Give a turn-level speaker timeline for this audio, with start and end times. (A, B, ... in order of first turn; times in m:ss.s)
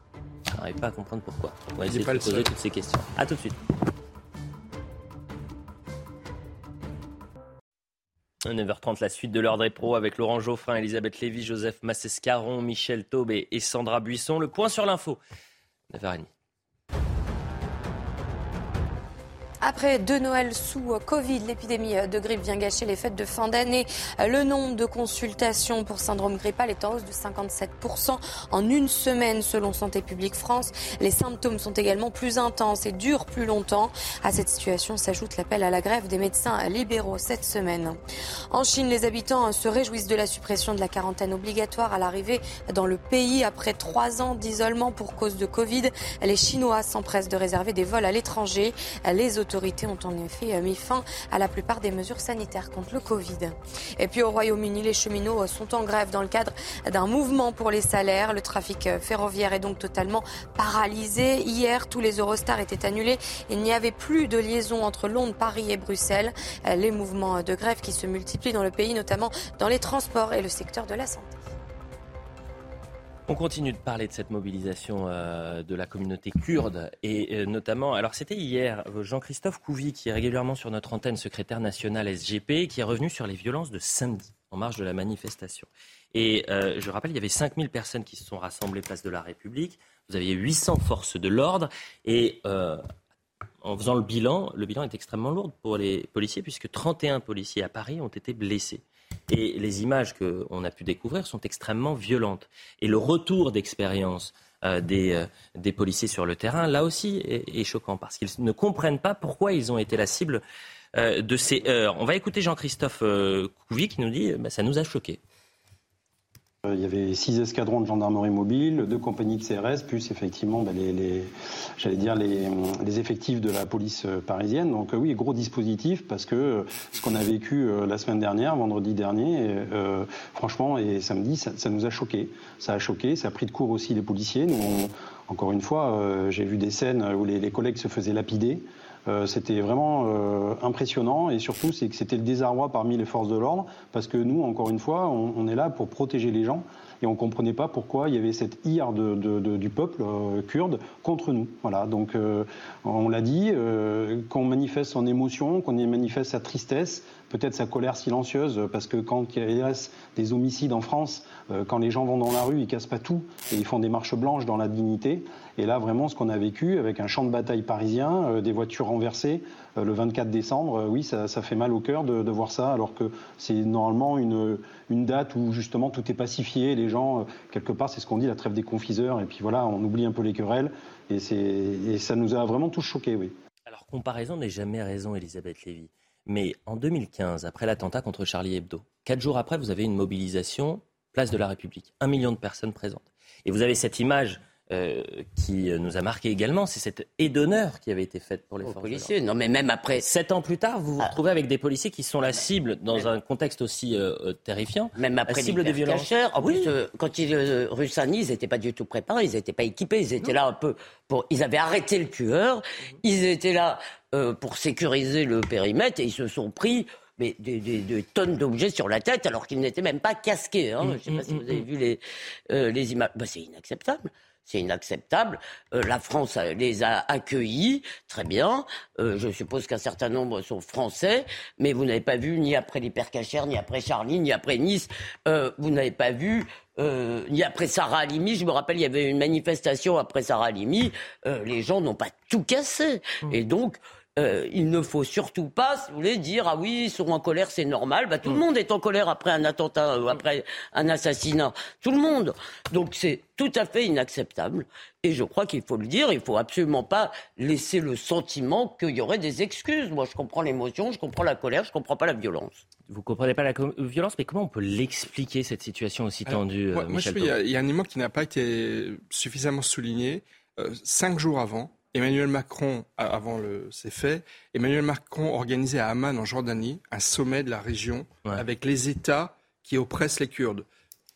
0:00.5-0:03.6 A
0:01.8-0:02.5 B
0:08.4-0:15.2 A
0:15.9-0:16.3 A
0:19.6-0:38.0 C
0:38.5-1:11.4 C
1:13.3-1:32.8 A
1:33.6-1:50.4 A
1:51.0-1:55.2 A
1:56.6-3:03.4 D
3:03.7-3:19.1 A
3:18.6-3:20.1 E
3:20.0-3:26.7 A
3:25.0-4:22.6 E
3:40.8-3:41.7 A
4:22.9-4:27.3 A
4:26.3-4:40.6 B